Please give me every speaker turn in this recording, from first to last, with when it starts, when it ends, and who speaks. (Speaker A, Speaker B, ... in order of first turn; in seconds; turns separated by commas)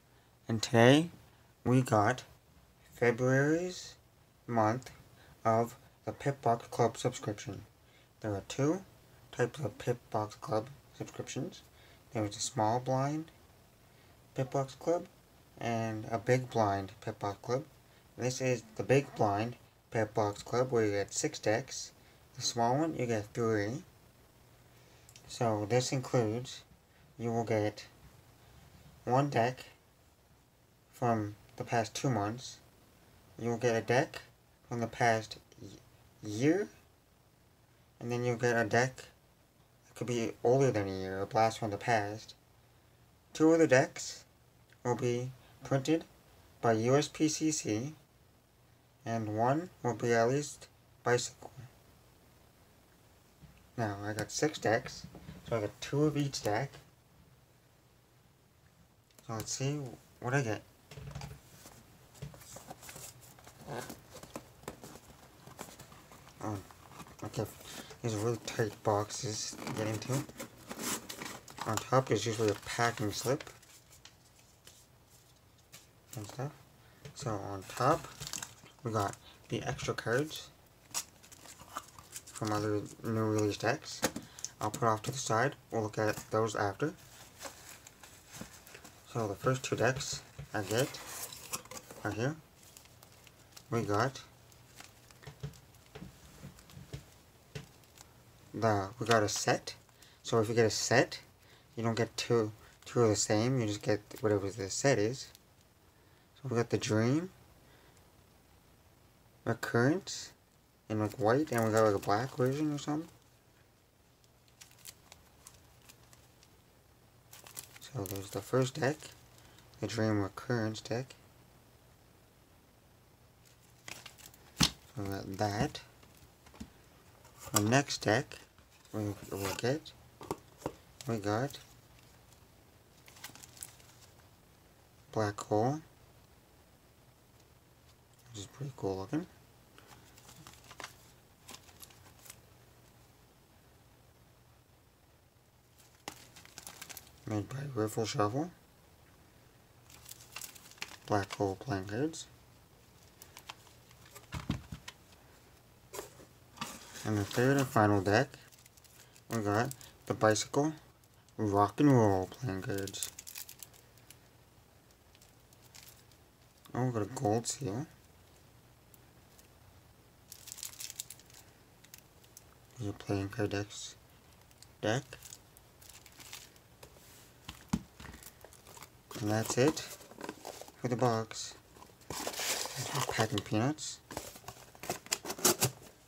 Speaker A: 0.5-1.1, Speaker A: 1.6-2.3, Speaker A: 2.9-7.7, Speaker A: 8.2-13.3, Speaker A: 14.3-23.9, Speaker A: 25.3-26.6, Speaker A: 27.2-27.9, Speaker A: 29.1-29.8, Speaker A: 30.9-32.6, Speaker A: 33.4-36.7, Speaker A: 38.0-39.1, Speaker A: 39.9-42.4, Speaker A: 43.3-44.3, Speaker A: 44.8-46.1, Speaker A: 46.6-48.0, Speaker A: 49.0-51.7, Speaker A: 53.8-56.8, Speaker A: 59.2-60.6, Speaker A: 66.4-66.7, Speaker A: 67.2-70.3, Speaker A: 71.7-73.5, Speaker A: 76.1-76.6, Speaker A: 77.1-78.2, Speaker A: 78.8-80.5, Speaker A: 82.3-84.1, Speaker A: 84.6-87.0, Speaker A: 89.1-91.0, Speaker A: 92.0-92.4, Speaker A: 93.7-94.3, Speaker A: 98.5-105.3, Speaker A: 106.4-107.3, Speaker A: 109.5-110.3, Speaker A: 110.9-113.1, Speaker A: 117.8-119.2, Speaker A: 119.8-121.2, Speaker A: 124.9-125.9, Speaker A: 127.5-129.9, Speaker A: 131.1-131.6, Speaker A: 135.1-135.8, Speaker A: 138.3-139.3, Speaker A: 147.3-148.5, Speaker A: 151.1-152.3, Speaker A: 157.0-158.5, Speaker A: 159.3-160.8, Speaker A: 161.4-163.1, Speaker A: 166.7-167.9, Speaker A: 172.8-174.0, Speaker A: 174.8-175.2, Speaker A: 179.2-180.0, Speaker A: 180.8-181.6, Speaker A: 182.8-184.0